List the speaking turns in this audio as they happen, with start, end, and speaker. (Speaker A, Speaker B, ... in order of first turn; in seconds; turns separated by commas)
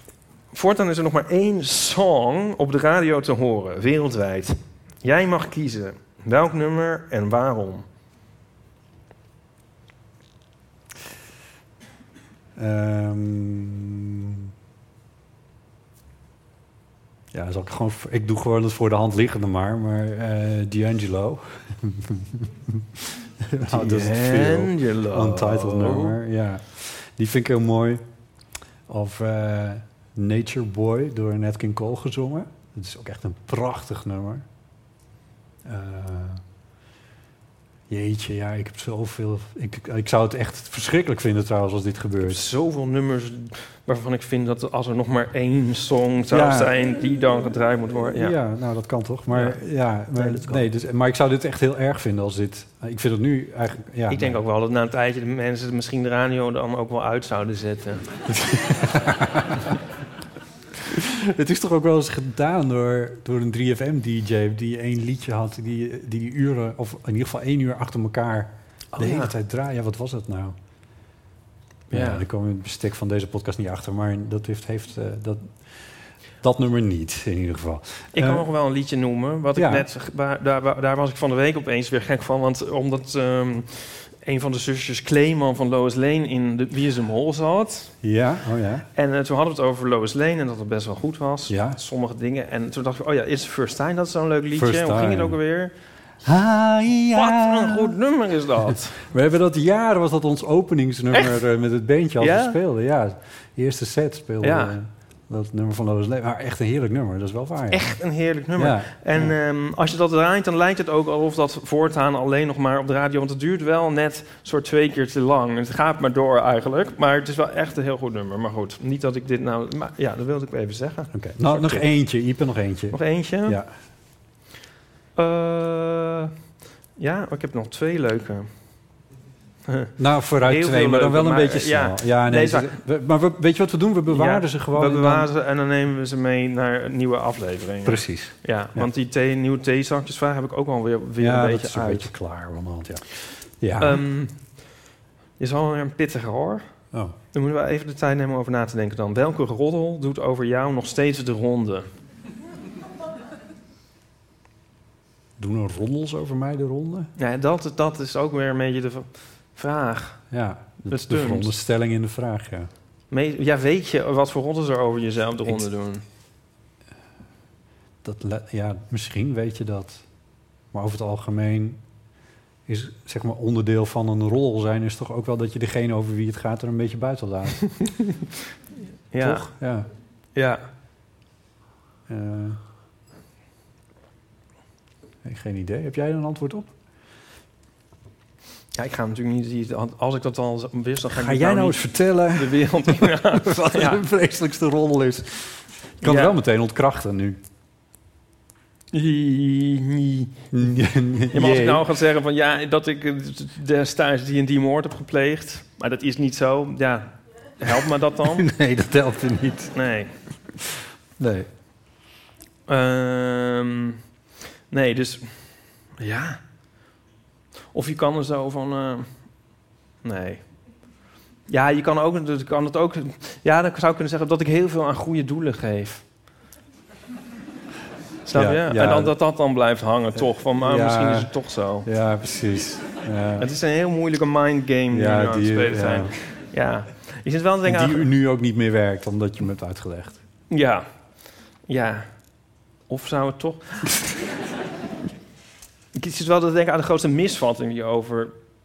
Speaker A: 0.5-7.9, Speaker B: 12.6-14.5, Speaker B: 17.3-28.0, Speaker A: 23.7-26.2, Speaker B: 28.9-34.5, Speaker B: 35.6-36.4, Speaker B: 37.9-42.5, Speaker A: 42.2-48.4, Speaker B: 46.3-46.7, Speaker B: 48.1-54.4, Speaker A: 49.3-49.6, Speaker A: 50.1-50.7, Speaker A: 54.1-58.0, Speaker B: 58.3-59.7, Speaker B: 60.9-70.5, Speaker A: 68.9-69.3, Speaker A: 71.9-72.2, Speaker B: 71.9-75.6, Speaker B: 76.4-78.5, Speaker A: 78.2-87.9, Speaker B: 79.6-79.9, Speaker B: 88.0-88.9, Speaker A: 89.0-95.7, Speaker B: 91.5-91.8, Speaker B: 94.5-95.4, Speaker B: 96.2-97.9, Speaker A: 97.1-99.0, Speaker B: 98.7-107.8, Speaker A: 102.2-102.6, Speaker A: 104.4-104.8, Speaker A: 107.7-121.9, Speaker B: 108.6-109.3, Speaker B: 121.1-123.7, Speaker A: 122.9-123.6, Speaker A: 125.2-126.3, Speaker A: 127.0-128.5, Speaker A: 129.7-129.9, Speaker B: 130.0-135.3, Speaker A: 130.5-132.8, Speaker A: 134.1-142.1, Speaker B: 137.8-138.9, Speaker B: 141.2-143.1, Speaker B: 143.6-144.0, Speaker A: 143.8-144.4, Speaker A: 145.4-146.6, Speaker A: 147.3-151.9, Speaker B: 155.4-157.1, Speaker A: 157.2-160.2, Speaker B: 160.3-162.7, Speaker A: 160.9-161.5, Speaker A: 163.1-166.0, Speaker B: 168.0-170.0, Speaker B: 170.7-171.8, Speaker B: 172.7-177.7, Speaker A: 177.8-178.0, Speaker A: 179.1-179.5, Speaker B: 179.2-179.9, Speaker A: 180.3-180.6, Speaker B: 182.1-182.6, Speaker B: 185.2-186.7, Speaker A: 188.8-194.0, Speaker B: 191.1-197.4, Speaker A: 196.0-196.3, Speaker A: 198.9-200.3, Speaker B: 200.5-201.9, Speaker A: 201.3-208.5, Speaker B: 208.2-209.7, Speaker A: 209.7-210.1, Speaker B: 211.2-211.5, Speaker A: 212.7-214.0, Speaker A: 214.7-216.4, Speaker A: 217.7-219.2, Speaker A: 220.0-220.5, Speaker A: 221.5-226.0, Speaker A: 228.3-231.9, Speaker B: 228.3-229.2, Speaker B: 230.5-231.3, Speaker B: 231.8-233.5, Speaker A: 233.4-238.1, Speaker B: 234.9-236.1, Speaker B: 237.7-240.2, Speaker A: 240.5-240.8, Speaker A: 241.7-242.1, Speaker A: 242.9-244.0, Speaker A: 245.9-248.3